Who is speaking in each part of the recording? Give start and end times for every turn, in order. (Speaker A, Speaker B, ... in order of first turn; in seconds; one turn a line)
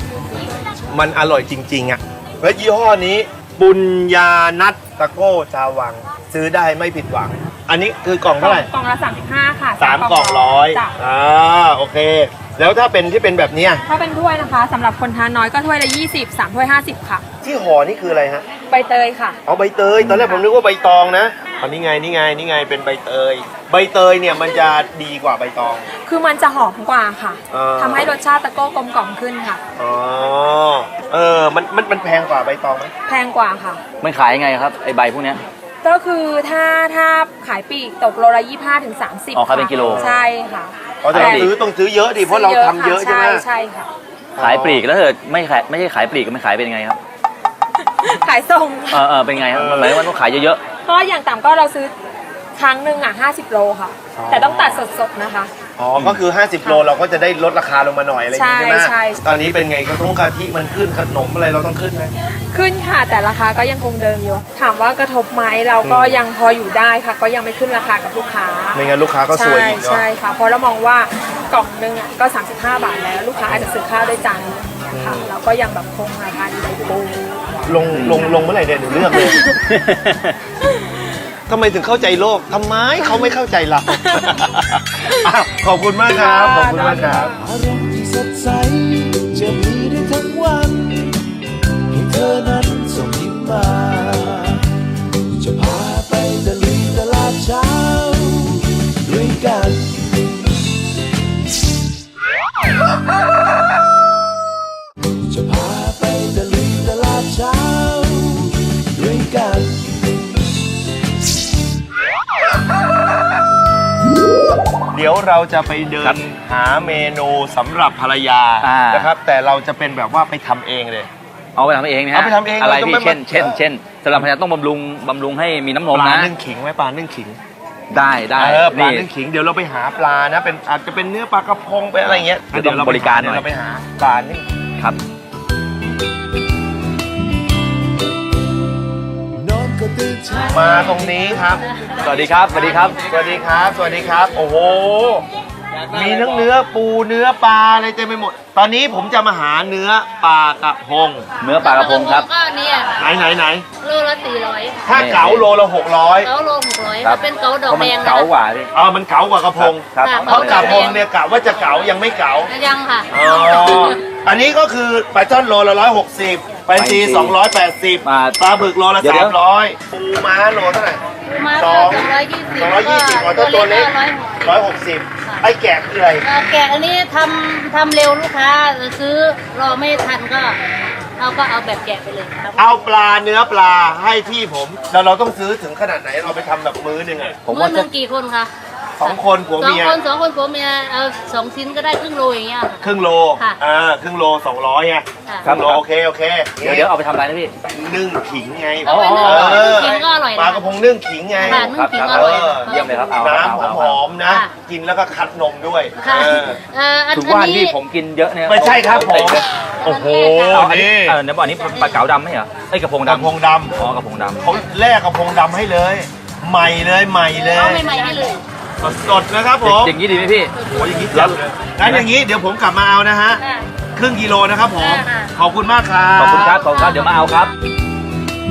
Speaker A: 0.9-8.7
Speaker B: 8.4-10.9
Speaker A: 9.8-13.8
Speaker B: 13.9-17.2
Speaker A: 17.4-18.5
Speaker B: 18.7-19.4
Speaker A: 19.4-25.9
Speaker B: 20.2-20.5
Speaker B: 26.1-29.6
Speaker A: 27.5-28.1
Speaker A: 29.8-32.9
Speaker B: 33.1-33.8
Speaker C: 34.0-35.4
Speaker B: 35.8-41.5
Speaker C: 39.3-40.1
Speaker A: 39.8-40.2
Speaker A: 41.0-43.5
Speaker C: 41.1-41.5
Speaker B: 42.2-43.9
Speaker A: 44.4-44.9
Speaker C: 44.4-47.0
Speaker B: 48.0-49.0
Speaker C: 48.9-50.6
Speaker A: 49.5-50.0
Speaker B: 50.8-51.9
Speaker B: 52.6-55.5
Speaker A: 54.2-54.8
Speaker A: 55.8-62.1
Speaker B: 56.6-56.9
Speaker B: 58.3-59.3
Speaker B: 62.5-77.4
Speaker A: 65.8-66.2
Speaker A: 68.7-70.0
Speaker A: 74.9-75.3
Speaker A: 77.7-79.4
Speaker C: 77.9-78.3
Speaker B: 79.1-79.5
Speaker C: 79.7-80.3
Speaker A: 81.5-87.3
Speaker B: 83.9-84.3
Speaker B: 86.1-87.3
Speaker D: 87.4-91.2
Speaker D: 91.9-94.7
Speaker D: 95.3-100.1
Speaker D: 105.3-109.9
Speaker A: 114.9-121.1
Speaker C: 118.6-119.1
Speaker C: 121.6-126.3
Speaker A: 122.1-123.6
Speaker A: 125.9-127.4
Speaker C: 127.9-129.1
Speaker A: 128.4-134.5
Speaker C: 132.1-133.5
Speaker D: 139.4-141.1
Speaker A: 140.5-141.6
Speaker C: 142.0-143.0
Speaker A: 142.6-145.3
Speaker A: 145.9-151.3
Speaker C: 146.2-146.4
Speaker C: 151.4-152.3
Speaker E: 151.6-152.9
Speaker A: 153.0-153.7
Speaker E: 153.8-154.8
Speaker A: 154.8-156.3
Speaker C: 154.9-155.5
Speaker E: 156.2-158.3
Speaker C: 157.0-158.7
Speaker A: 158.7-162.5
Speaker C: 159.6-161.0
Speaker E: 160.0-161.0
Speaker E: 162.5-164.0
Speaker A: 163.1-171.0
Speaker C: 166.8-167.4
Speaker C: 168.0-168.4
Speaker C: 169.0-169.4
Speaker E: 171.3-174.6
Speaker A: 171.5-173.9
Speaker A: 174.4-176.2
Speaker E: 176.2-180.6
Speaker E: 181.2-182.6
Speaker A: 182.6-187.4
Speaker C: 187.5-187.9
Speaker E: 187.5-188.5
Speaker A: 189.0-190.0
Speaker E: 189.0-192.8
Speaker A: 192.8-196.9
Speaker C: 195.4-195.8
Speaker C: 196.6-197.5
Speaker A: 197.7-206.6
Speaker E: 198.9-200.6
Speaker C: 198.9-200.1
Speaker E: 201.4-203.1
Speaker C: 201.5-204.0
Speaker E: 206.0-207.7
Speaker C: 207.1-209.4
Speaker A: 208.5-211.2
Speaker E: 209.9-210.6
Speaker C: 210.5-214.4
Speaker A: 213.1-213.8
Speaker A: 214.4-217.8
Speaker E: 217.5-218.4
Speaker A: 218.8-220.0
Speaker C: 219.6-220.5
Speaker E: 220.6-221.2
Speaker A: 220.7-223.4
Speaker C: 221.1-222.1
Speaker A: 223.9-226.6
Speaker E: 224.8-225.3
Speaker C: 226.2-227.5
Speaker E: 226.6-227.0